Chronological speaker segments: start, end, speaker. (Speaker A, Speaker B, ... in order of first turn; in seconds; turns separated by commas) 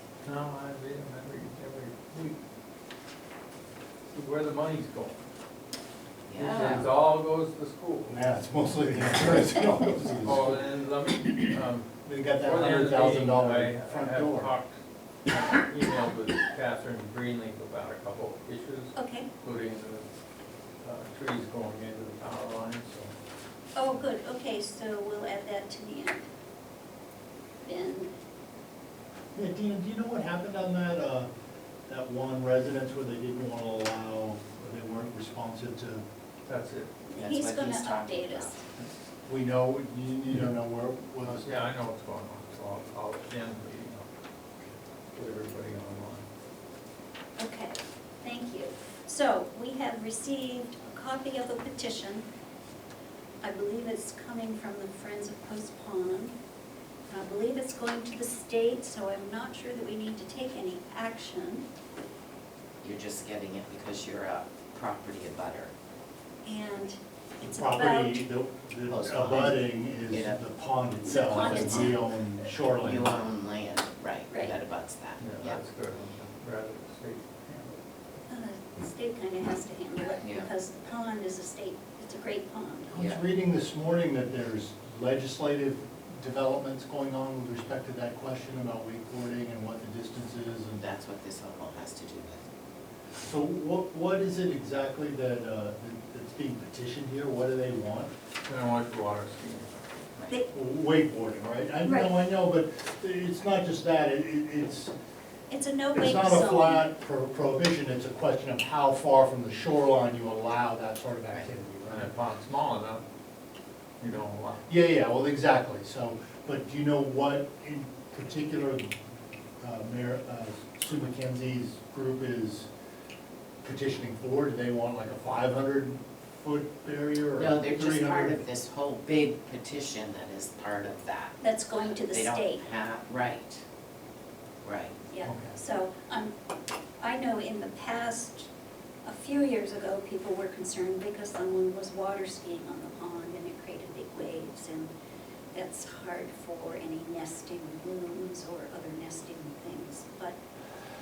Speaker A: 0.2-2.4, Speaker A: 4.1-5.2, Speaker B: 6.3-6.9, Speaker A: 6.4-8.2, Speaker C: 8.1-10.7, Speaker A: 10.2-11.9, Speaker C: 12.0-14.5, Speaker A: 12.4-20.1, Speaker D: 19.0-19.3, Speaker A: 20.8-23.1, Speaker D: 23.8-26.2, Speaker D: 27.6-28.1, Speaker C: 29.4-31.3, Speaker C: 31.9-36.0, Speaker A: 36.5-36.9, Speaker D: 37.1-38.6, Speaker B: 37.2-38.8, Speaker C: 39.3-41.7, Speaker A: 41.4-44.1, Speaker A: 45.1-46.3, Speaker D: 47.4-52.2, Speaker D: 53.4-56.3, Speaker D: 57.1-61.7, Speaker B: 62.8-65.7, Speaker D: 66.5-68.2, Speaker C: 67.4-73.2, Speaker B: 68.9-70.5, Speaker D: 71.1-72.1, Speaker B: 71.1-72.0, Speaker B: 72.8-75.6, Speaker D: 74.3-74.6, Speaker A: 75.2-77.8, Speaker D: 78.3-83.0, Speaker B: 80.2-80.5, Speaker C: 82.9-90.8, Speaker B: 83.0-83.2, Speaker B: 90.8-92.4, Speaker C: 93.2-98.1, Speaker A: 98.5-99.8, Speaker C: 100.5-104.9, Speaker D: 101.8-102.1, Speaker D: 105.5-106.9, Speaker C: 105.9-112.1, Speaker A: 111.9-113.0, Speaker A: 114.0-114.7, Speaker C: 114.7-118.9, Speaker C: 119.6-122.7, Speaker C: 123.6-128.4, Speaker B: 127.3-133.6, Speaker D: 131.4-132.7, Speaker B: 134.6-135.0, Speaker D: 135.1-136.3, Speaker C: 135.2-135.5, Speaker D: 137.0-138.5, Speaker D: 139.1-144.9, Speaker D: 145.5-150.4